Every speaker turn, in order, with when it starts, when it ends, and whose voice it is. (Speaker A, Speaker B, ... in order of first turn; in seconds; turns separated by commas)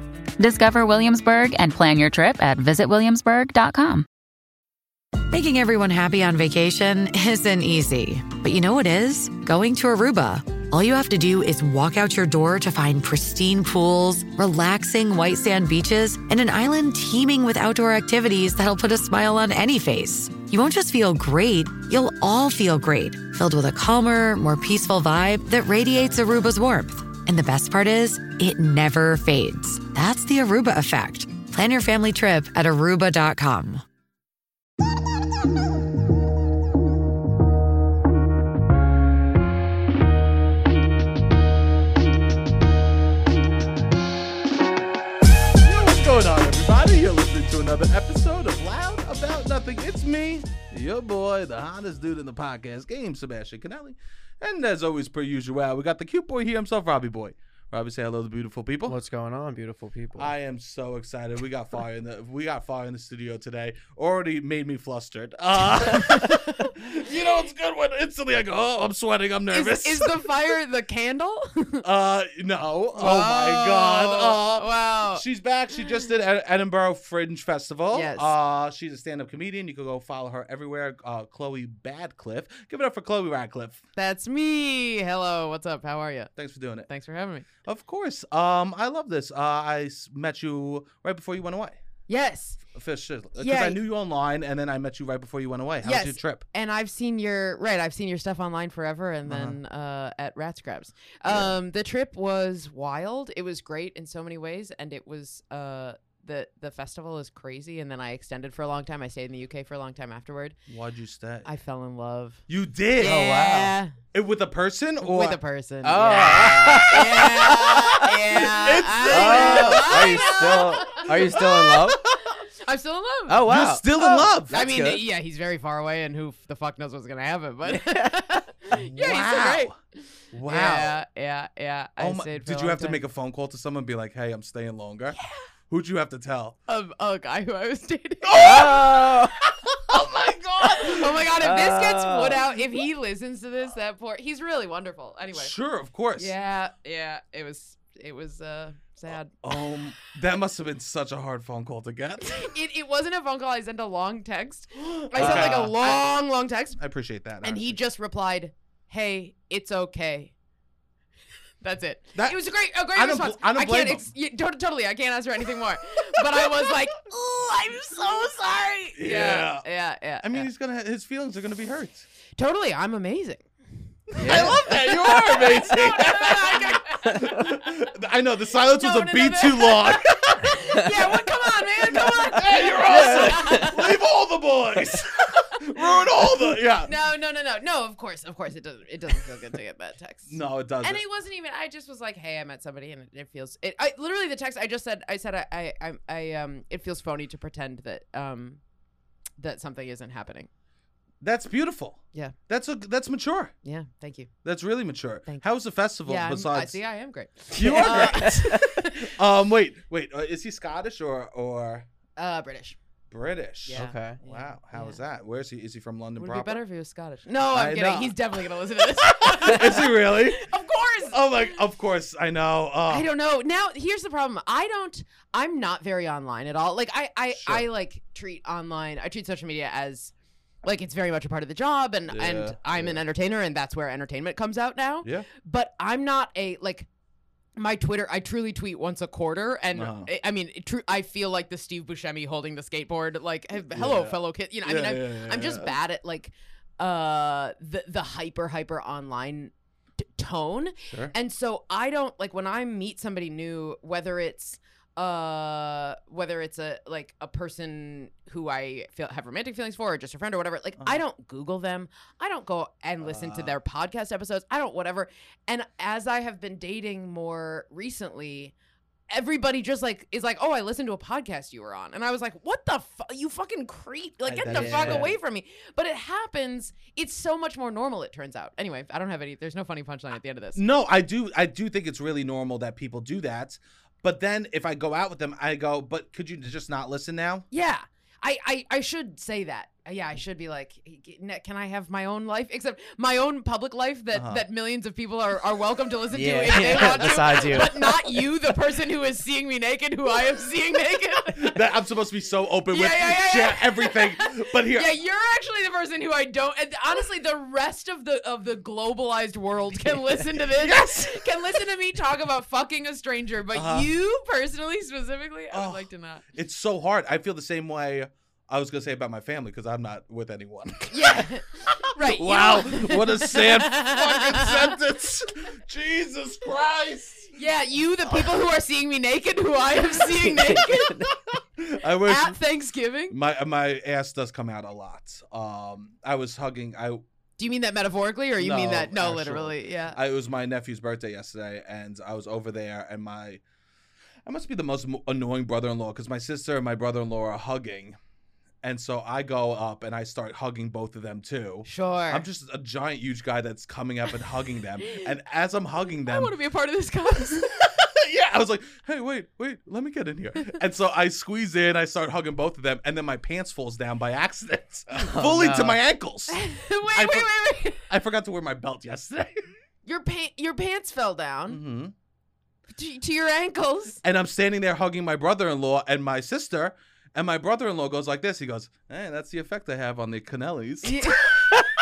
Speaker A: 0.4-4.1, Speaker B: 5.3-33.8, Speaker C: 45.6-59.0, Speaker D: 58.9-60.3, Speaker C: 60.2-70.2, Speaker E: 65.9-66.6, Speaker E: 69.5-71.8, Speaker C: 71.8-83.8, Speaker E: 73.0-75.2, Speaker E: 77.9-78.3, Speaker E: 84.0-86.3, Speaker C: 86.4-86.9, Speaker E: 86.9-87.5, Speaker C: 87.7-91.8, Speaker E: 92.1-92.6, Speaker C: 92.7-96.5, Speaker E: 93.4-93.8, Speaker E: 95.8-110.6, Speaker C: 99.3-99.6, Speaker C: 110.7-111.5, Speaker E: 111.5-112.4, Speaker C: 112.5-115.4, Speaker E: 113.0-114.0, Speaker E: 115.0-121.7, Speaker D: 115.8-118.1, Speaker C: 116.1-116.9, Speaker C: 118.3-121.8, Speaker D: 119.1-122.0, Speaker E: 122.6-129.7, Speaker D: 123.3-123.9, Speaker C: 123.4-124.5, Speaker D: 124.5-125.0, Speaker C: 128.7-129.8, Speaker C: 130.3-131.0, Speaker E: 130.5-133.0, Speaker C: 132.0-135.2, Speaker C: 135.7-136.6, Speaker E: 136.7-138.9, Speaker C: 138.2-139.2, Speaker D: 138.4-139.3, Speaker C: 139.9-141.2, Speaker E: 140.8-145.5, Speaker D: 141.4-142.5, Speaker C: 145.3-146.3, Speaker E: 146.2-149.6, Speaker C: 149.1-152.5, Speaker E: 152.3-156.8, Speaker C: 154.8-156.1, Speaker D: 155.2-155.7, Speaker C: 156.8-157.8, Speaker E: 157.4-160.3, Speaker E: 161.6-170.5, Speaker C: 162.2-164.1, Speaker C: 169.0-169.7, Speaker C: 170.2-172.1, Speaker E: 172.4-173.4, Speaker E: 174.1-177.4, Speaker C: 174.2-180.5, Speaker D: 174.2-175.7, Speaker E: 178.8-184.0, Speaker C: 181.9-186.9, Speaker D: 182.8-183.9, Speaker E: 186.8-198.6, Speaker C: 190.3-191.0, Speaker E: 199.4-200.5, Speaker C: 201.2-203.5, Speaker E: 203.6-204.3, Speaker C: 204.4-206.8, Speaker E: 206.1-209.1, Speaker D: 207.6-208.4, Speaker C: 207.6-211.9, Speaker E: 212.2-212.8, Speaker C: 213.1-216.6, Speaker E: 213.7-215.0, Speaker D: 213.7-214.2, Speaker E: 216.2-221.6, Speaker C: 217.5-218.2, Speaker C: 219.4-220.5, Speaker C: 221.1-223.1, Speaker E: 222.9-230.1, Speaker C: 227.3-227.7, Speaker E: 230.6-236.9, Speaker C: 232.1-233.0, Speaker E: 237.6-268.5, Speaker C: 239.8-240.1, Speaker C: 243.7-245.8, Speaker C: 250.9-251.1, Speaker C: 263.0-263.5, Speaker E: 269.1-280.6, Speaker C: 274.2-275.1, Speaker D: 274.5-275.1, Speaker C: 280.6-287.5, Speaker E: 287.5-301.6, Speaker C: 294.1-294.4, Speaker D: 296.1-298.3, Speaker C: 301.4-304.9, Speaker E: 302.7-316.2, Speaker C: 310.5-311.2, Speaker C: 313.5-313.9, Speaker C: 315.5-327.3, Speaker E: 320.9-324.8, Speaker E: 327.4-331.1, Speaker D: 330.4-331.1, Speaker C: 331.6-332.4, Speaker E: 332.1-333.2, Speaker C: 333.1-337.0, Speaker E: 337.4-340.0, Speaker C: 338.4-343.4, Speaker C: 344.3-348.0, Speaker C: 348.6-356.3, Speaker E: 351.7-352.2, Speaker E: 356.1-357.6, Speaker C: 357.7-366.4, Speaker D: 364.9-365.8, Speaker E: 366.3-367.8, Speaker C: 366.9-369.5, Speaker E: 369.9-371.6, Speaker C: 371.5-371.9, Speaker E: 372.7-374.0, Speaker C: 374.0-381.4, Speaker E: 380.8-381.3